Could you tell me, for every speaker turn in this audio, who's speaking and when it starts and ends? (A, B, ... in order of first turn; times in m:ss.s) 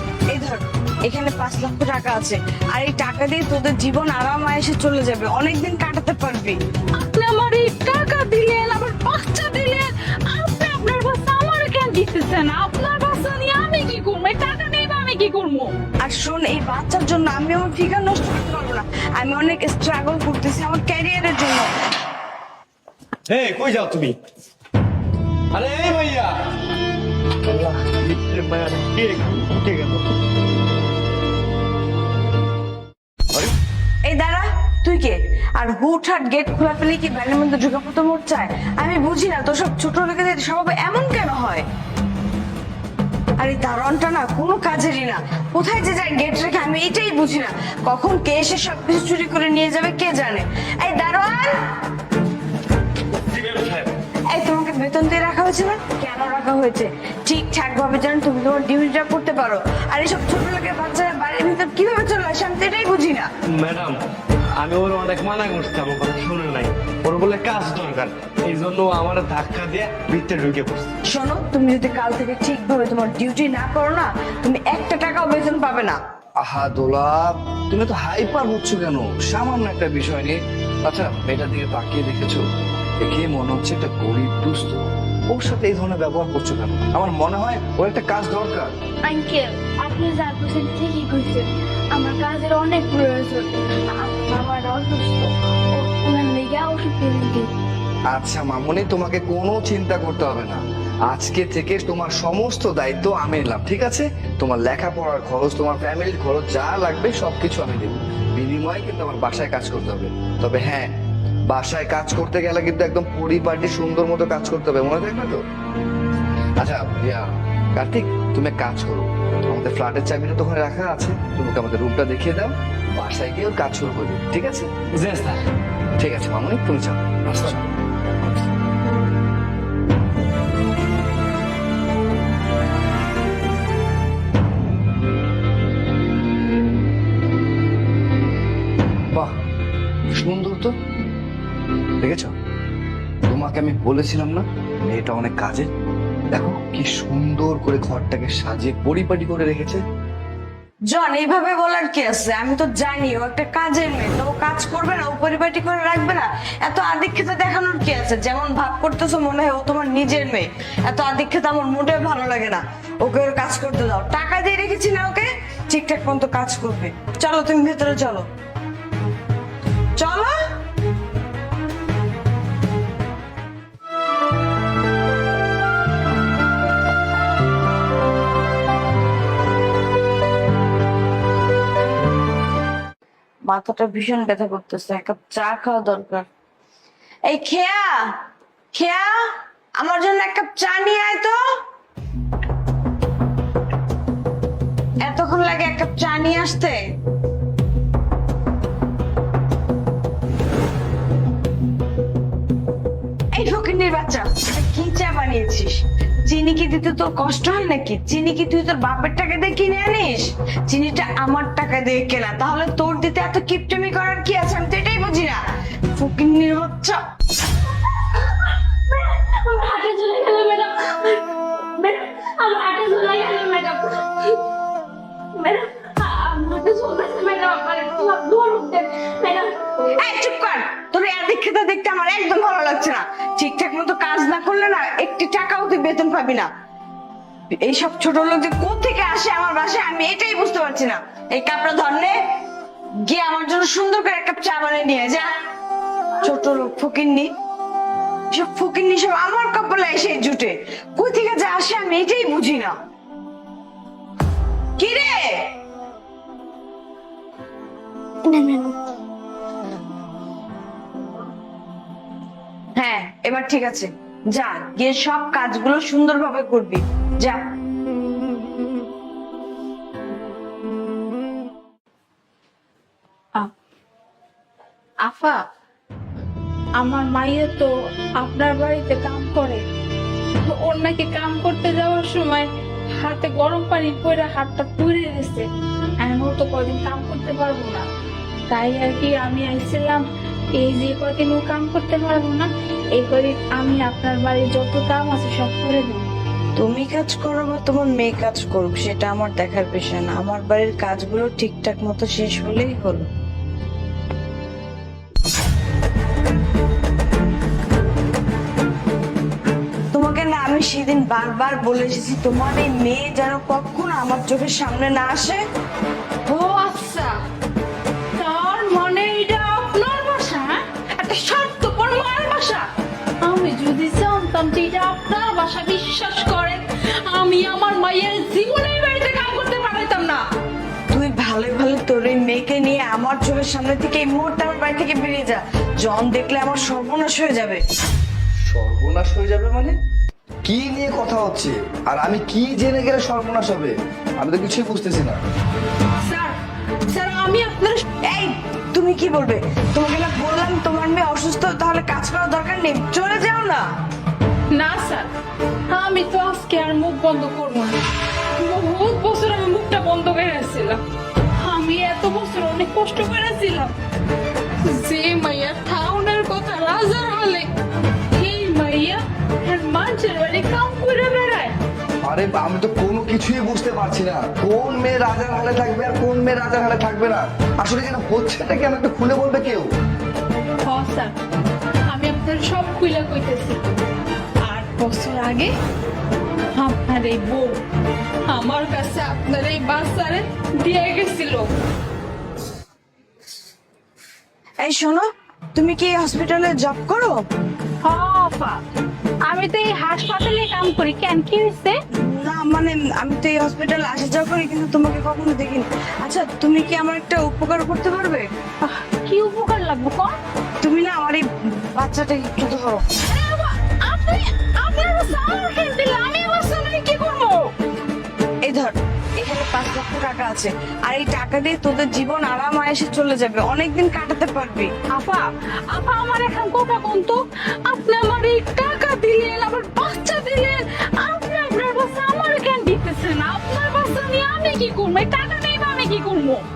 0:00.3-0:06.6 A
0:07.0-0:15.7 B
0:16.0-0:21.7 A
0:23.3-0:24.2 C
0:25.5-0:26.4 C
0:27.5-0:29.8 D
0:28.6-0:29.5 C
0:34.0-0:41.7 A
0:43.4-0:51.5 A
0:53.3-0:53.9 C
0:54.3-1:03.3 A
1:03.5-1:04.0 C
1:04.6-1:10.9 C
1:11.1-1:16.0 A
1:16.4-1:22.4 D
1:23.0-1:28.7 D
1:29.0-1:37.5 E
1:38.1-1:50.9 D
1:51.5-1:55.4 D
1:56.6-2:04.7 D
2:05.0-2:05.4 C
2:06.0-2:07.6 D
2:20.2-2:20.7 D
2:22.0-2:22.3 D
2:23.3-2:25.7 D
2:26.3-2:29.8 D
2:30.9-2:48.2 A
2:50.0-2:50.3 A
3:03.5-3:06.3 A
3:07.3-3:08.0 A
3:08.7-3:09.1 A
3:09.8-3:11.4 A
3:15.0-3:16.8 A
3:23.3-3:35.4 A
3:36.0-3:37.0 A
3:39.5-3:40.7 E
3:42.5-3:44.0 E
3:45.4-3:49.8 E
3:49.9-3:56.5 A
3:57.5-4:02.2 A
4:03.0-4:05.3 A
4:06.2-4:07.3 A
4:08.3-4:12.8 A
4:14.8-4:15.2 A
4:18.3-4:18.7 E
4:22.8-4:27.4 A
4:35.0-4:35.4 B
4:36.8-4:39.6 B
4:40.4-4:42.5 B
4:43.0-4:45.5 B
4:46.0-4:47.8 B
4:48.5-4:50.0 B
4:50.6-4:56.1 B
4:56.6-5:03.1 A
5:09.9-5:15.4 A
5:16.3-5:17.2 B
5:18.2-5:22.7 B
5:23.2-5:30.2 B
5:30.9-5:37.6 A
5:38.5-5:39.8 D
5:40.4-5:45.2 D
5:46.0-5:46.4 B
5:46.9-5:47.8 B
5:48.1-5:53.6 A
5:54.5-5:55.1 B
5:55.7-5:57.8 B
5:58.4-6:00.8 B
6:01.4-6:03.7 B
6:04.6-6:07.5 B
6:08.2-6:11.6 B
6:12.0-6:19.7 D
6:20.7-6:21.1 B
6:21.9-6:23.6 B
6:24.5-6:25.5 B
6:26.6-6:27.6 B
6:28.3-6:31.5 B
6:34.6-6:37.2 A
6:37.8-6:38.6 B
6:39.3-6:41.8 B
6:42.0-6:48.3 A
6:48.6-6:50.2 B
6:50.6-6:52.8 A
6:53.1-6:57.5 B
6:58.4-7:04.7 A
7:05.0-7:16.4 B